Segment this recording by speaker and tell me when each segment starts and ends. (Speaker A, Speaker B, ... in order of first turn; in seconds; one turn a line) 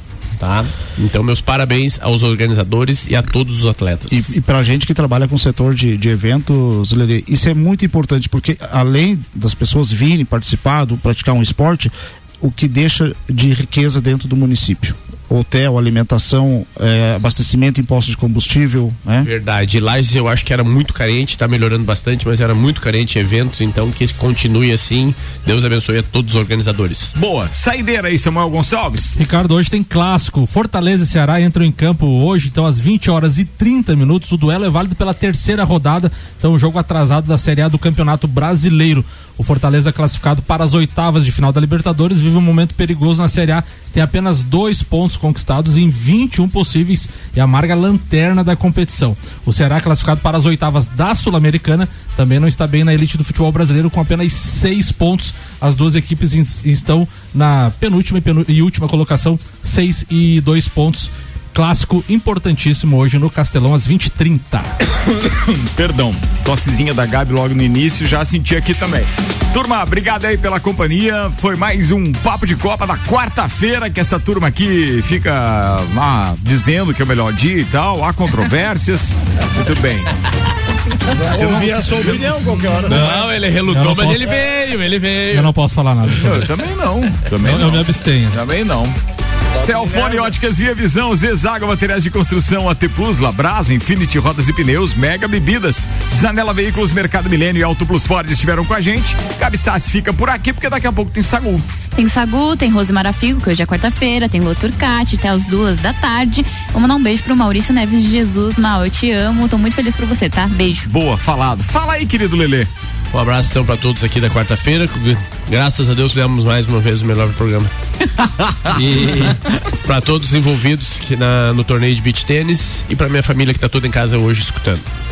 Speaker A: 0.4-4.3
Speaker B: 4.1-19.3
Speaker A: 19.2-27.1
Speaker C: 27.1-29.2
Speaker D: 29.2-64.7
Speaker C: 65.0-80.1
Speaker B: 81.2-83.2
Speaker C: 81.3-83.0
Speaker A: 82.9-85.6
Speaker D: 82.9-84.4
Speaker D: 85.3-86.6
Speaker C: 86.1-89.0
Speaker D: 87.4-88.4
Speaker C: 89.5-101.7
Speaker E: 102.0-110.9
Speaker C: 110.8-112.7
Speaker A: 113.1-117.7
Speaker C: 118.2-119.3
Speaker A: 118.8-124.9